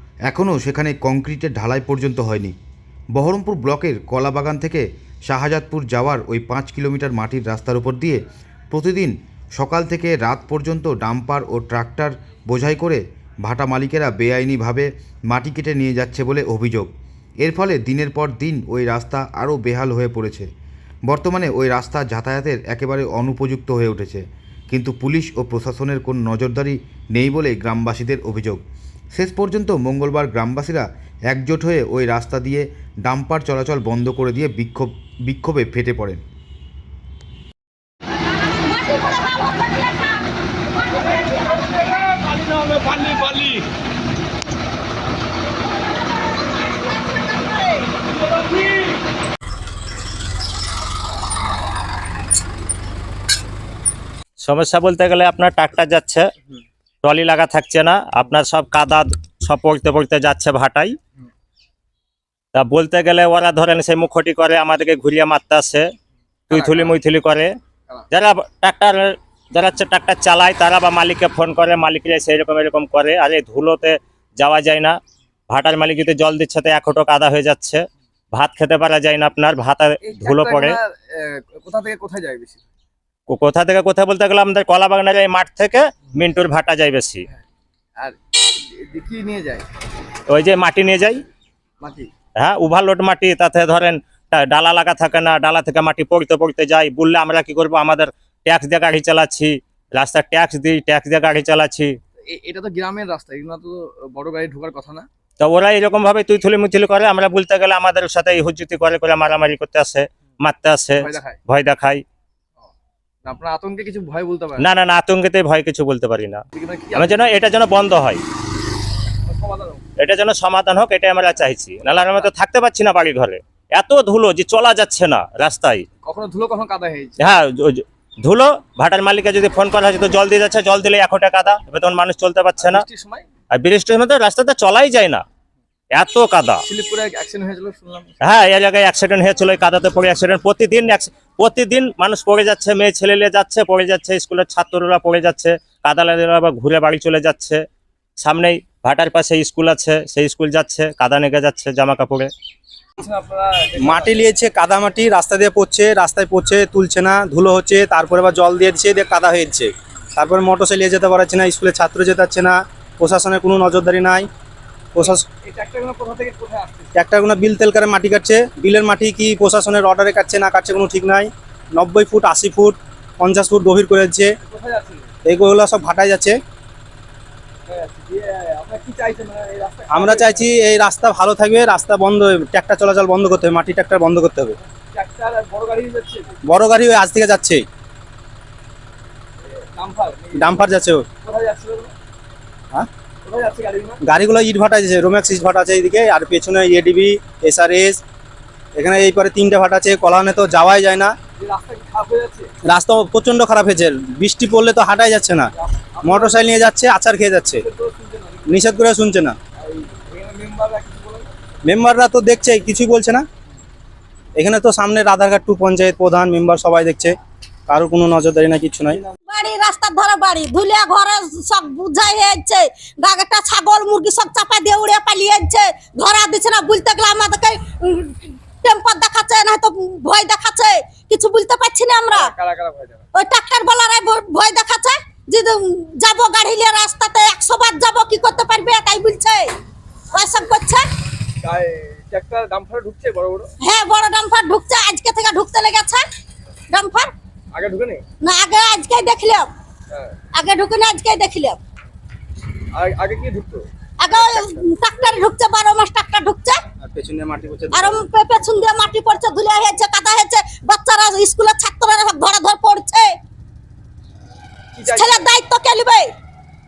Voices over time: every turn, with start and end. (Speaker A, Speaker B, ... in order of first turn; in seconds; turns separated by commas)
Speaker A: 0.3-2.5, Speaker A: 3.1-16.9, Speaker A: 17.4-20.5, Speaker A: 21.1-28.6, Speaker A: 29.1-36.2, Speaker B: 54.4-56.3, Speaker B: 57.0-61.0, Speaker B: 62.5-65.9, Speaker B: 66.5-67.5, Speaker C: 66.5-67.0, Speaker B: 68.1-75.0, Speaker B: 75.5-80.8, Speaker C: 80.0-82.6, Speaker B: 83.3-87.2, Speaker C: 88.0-89.7, Speaker B: 90.3-91.2, Speaker C: 91.8-92.1, Speaker B: 92.4-101.9, Speaker C: 102.2-105.1, Speaker B: 105.4-112.0, Speaker C: 111.0-111.4, Speaker C: 113.2-114.7, Speaker B: 114.6-116.4, Speaker C: 116.5-117.3, Speaker B: 117.0-118.2, Speaker C: 119.2-119.9, Speaker B: 120.0-125.8, Speaker C: 126.0-127.3, Speaker B: 127.2-132.8, Speaker C: 132.6-133.3, Speaker B: 133.5-135.2, Speaker B: 135.9-136.6, Speaker C: 136.6-138.2, Speaker B: 138.2-147.6, Speaker B: 148.2-152.3, Speaker C: 153.0-154.3, Speaker D: 153.8-164.3, Speaker D: 164.9-165.2, Speaker C: 165.0-166.9, Speaker D: 166.9-174.3, Speaker C: 174.4-175.1, Speaker D: 175.2-176.4, Speaker C: 177.7-180.5, Speaker D: 179.9-184.6, Speaker C: 184.9-186.4, Speaker D: 186.4-187.6, Speaker C: 189.6-191.9, Speaker D: 190.3-191.1, Speaker C: 193.2-194.0, Speaker D: 194.0-198.0, Speaker D: 198.7-201.1, Speaker C: 201.3-202.5, Speaker D: 202.6-205.5, Speaker C: 205.5-206.7, Speaker D: 206.0-207.6, Speaker C: 207.5-208.8, Speaker D: 208.5-209.4, Speaker C: 209.6-211.3, Speaker D: 211.6-213.2, Speaker D: 214.3-217.2, Speaker D: 217.7-219.0, Speaker E: 219.3-232.3, Speaker C: 232.1-233.1, Speaker E: 233.1-239.5, Speaker E: 240.1-240.8, Speaker C: 241.4-243.5, Speaker E: 243.6-246.0, Speaker E: 246.7-247.1, Speaker C: 247.5-248.0, Speaker E: 248.2-249.5, Speaker C: 249.9-250.2, Speaker E: 250.3-251.6, Speaker C: 252.7-254.6, Speaker E: 254.0-256.6, Speaker D: 256.8-257.9, Speaker E: 257.7-263.1, Speaker C: 264.7-265.4, Speaker E: 264.9-266.1